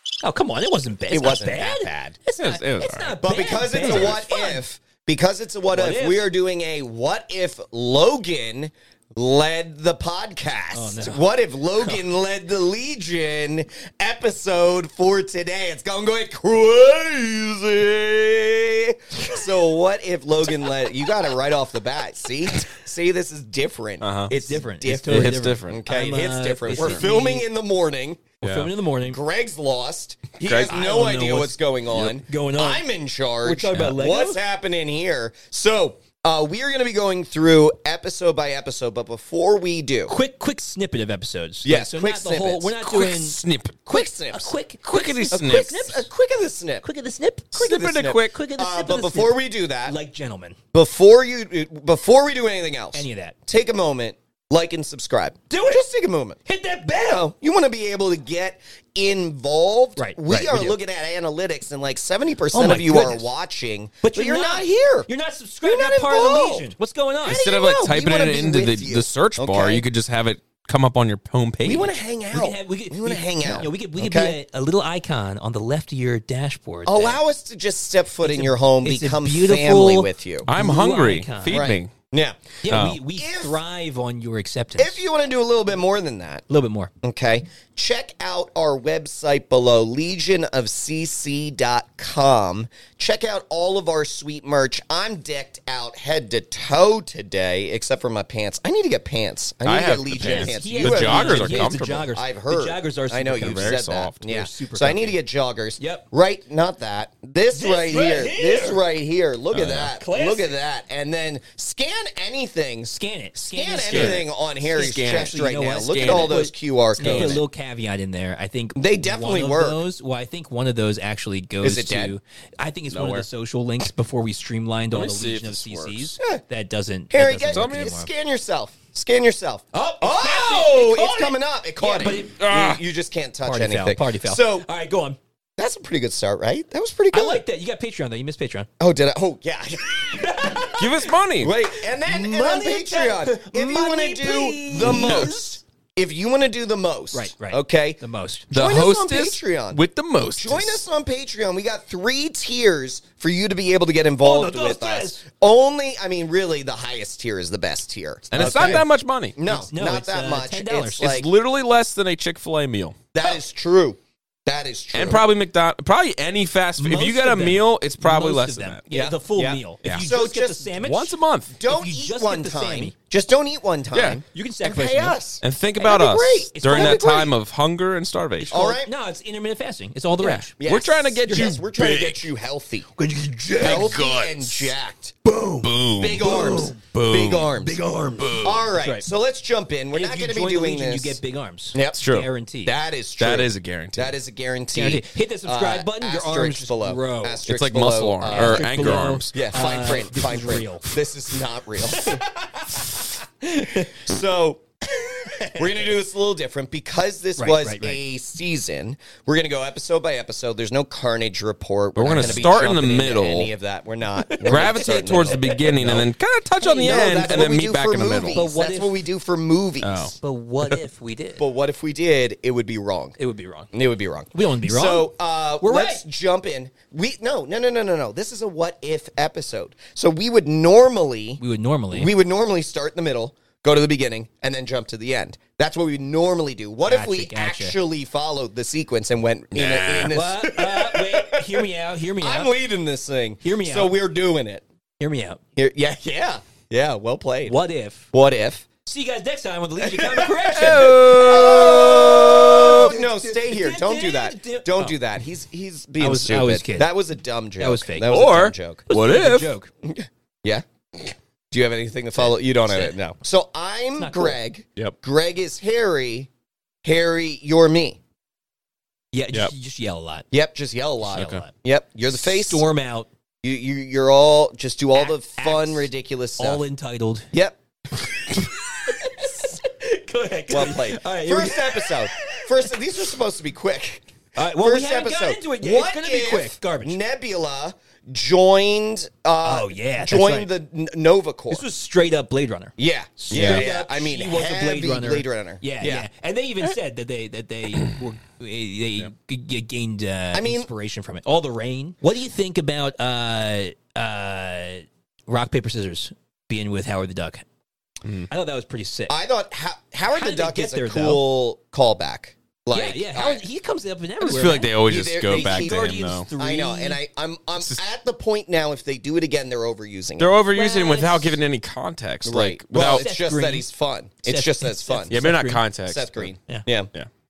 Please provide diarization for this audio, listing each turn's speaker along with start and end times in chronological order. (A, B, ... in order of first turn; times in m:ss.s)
0:00.2-0:04.6 A
0:01.1-0:02.2 B
0:02.4-0:03.2 C
0:03.2-0:28.4 B
0:03.9-0:04.2 C
0:05.7-0:06.3 A
0:10.7-0:11.2 A
0:24.0-0:24.3 C
0:24.3-0:27.4 A
0:25.0-0:25.8 C
0:26.7-0:27.2 C
0:28.4-0:29.2 A
0:28.4-0:28.7 C
0:29.0-0:40.1 B
0:30.4-0:30.7 C
0:30.6-0:32.8 A
0:33.4-0:34.4 A
0:40.1-0:43.4 A
0:41.6-0:42.8 B
0:42.8-0:43.9 C
0:43.9-0:44.6 B
0:43.9-0:46.1 A
0:44.9-0:45.7 C
0:45.3-0:46.8 B
0:46.8-0:50.6 A
0:47.5-0:50.0 B
0:47.6-0:48.3 C
0:50.7-0:56.4 B
0:52.9-0:53.4 A
0:55.5-0:55.8 A
0:56.4-0:57.3 A
0:56.9-1:05.1 B
1:00.0-1:00.8 A
1:02.5-1:03.2 A
1:04.0-1:07.4 A
1:05.6-1:06.7 B
1:07.2-1:09.8 B
1:07.2-1:11.9 C
1:11.6-1:14.4 B
1:12.3-1:17.2 A
1:16.9-1:20.5 B
1:18.2-1:21.7 A
1:20.5-1:21.9 C
1:21.5-1:23.6 B
1:22.6-1:25.0 A
1:22.7-1:23.0 C
1:24.8-1:26.4 B
1:26.5-1:26.9 A
1:27.0-1:57.4 B
1:39.7-1:42.1 C
1:40.2-1:45.2 A
1:43.3-1:44.2 C
1:45.8-1:46.1 A
1:47.5-1:48.8 A
1:49.5-1:49.9 C
1:49.9-1:50.6 A
1:52.9-2:08.1 A
1:53.9-1:56.4 C
1:57.0-1:57.4 C
1:58.8-1:59.8 B
2:01.6-2:02.1 B
2:02.9-2:03.3 C
2:04.9-2:06.1 C
2:07.1-2:14.7 B
2:07.5-2:07.9 C
2:09.7-2:12.4 A
2:12.0-2:12.8 C
2:13.4-2:15.2 A
2:15.6-2:17.4 B
2:17.1-2:18.7 A
2:18.8-2:20.7 B
2:19.8-2:21.1 A
2:20.8-2:21.5 C
2:21.4-2:28.0 B
2:21.7-2:25.6 A
2:24.8-2:25.3 C
2:27.1-2:28.5 A
2:28.5-2:30.8 C
2:28.5-2:41.3 B
2:34.2-2:35.2 A
2:38.3-2:39.4 C
2:38.4-2:38.8 A
2:39.5-2:41.1 A
2:41.0-2:43.0 C
2:43.1-2:45.2 B
2:44.9-2:48.8 C
2:46.8-2:51.2 A
2:48.9-2:50.7 B
2:50.8-2:51.5 C
2:51.5-2:57.3 B
2:51.7-2:52.9 A
2:53.9-2:54.2 C
2:54.3-2:55.2 A
2:55.4-2:58.6 C
2:56.5-2:57.2 A
2:58.4-3:00.5 A
2:58.5-2:58.9 B
3:00.2-3:02.2 C
3:00.6-3:02.9 B
3:01.3-3:01.6 A
3:03.0-3:04.0 A
3:03.6-3:04.8 C
3:03.6-3:05.2 B
3:05.2-3:06.8 A
3:05.6-3:08.7 C
3:06.0-3:07.8 B
3:07.6-3:09.1 A
3:08.4-3:11.2 B
3:09.9-3:12.7 A
3:11.7-3:12.0 B
3:11.9-3:12.3 C
3:12.6-3:22.2 B
3:13.2-3:14.2 C
3:14.7-3:17.4 A
3:17.5-3:19.5 C
3:18.3-3:20.9 A
3:21.9-3:24.0 A
3:23.7-3:24.6 B
3:25.0-3:25.9 A
3:25.5-3:35.9 B
3:27.4-3:28.0 A
3:32.0-3:33.5 C
3:32.1-3:32.5 A
3:34.2-3:36.1 A
3:34.4-3:38.4 C
3:36.6-3:37.2 A
3:36.7-3:40.2 B
3:38.3-3:39.0 A
3:39.8-3:40.2 C
3:40.2-3:41.4 A
3:41.4-3:43.2 B
3:43.2-3:43.7 A
3:43.7-3:51.4 B
3:44.3-3:46.0 A
3:51.4-3:52.1 A
3:51.9-4:04.6 B
3:56.9-3:57.8 A
3:59.5-4:00.2 C
4:00.0-4:02.5 A
4:03.4-4:03.9 A
4:05.0-4:05.4 A
4:05.6-4:07.6 B
4:07.5-4:08.1 A
4:08.1-4:08.7 B
4:08.9-4:15.0 A
4:09.8-4:18.8 B
4:10.5-4:12.8 C
4:16.0-4:16.9 A
4:17.6-4:18.1 A
4:18.0-4:19.5 C
4:18.9-4:19.7 A
4:19.8-4:26.3 B
4:22.7-4:23.0 A
4:24.0-4:24.4 A
4:26.8-4:28.0 B
4:29.1-4:30.3 A
4:30.3-4:32.6 B
4:31.1-4:31.5 A
4:31.1-4:31.4 C
4:32.1-4:33.1 A
4:33.4-4:36.6 B
4:35.0-4:37.3 A
4:37.3-4:37.6 B
4:38.0-4:42.7 A
4:40.5-4:51.6 B
4:44.4-4:47.0 A
4:49.4-4:50.5 A
4:51.5-5:07.4 A
4:52.8-4:56.1 B
4:53.3-4:53.6 C
5:00.3-5:00.7 B
5:08.0-5:08.3 C
5:08.3-5:09.2 A
5:09.1-5:13.4 B
5:10.1-5:11.2 A
5:12.7-5:14.8 A
5:14.2-5:16.3 C
5:14.8-5:20.4 B
5:15.3-5:17.0 A
5:20.2-5:23.0 C
5:20.5-5:21.4 A
5:22.2-5:25.2 B
5:22.8-5:23.7 A
5:24.2-5:25.6 A
5:25.1-5:26.3 C
5:25.9-5:26.9 B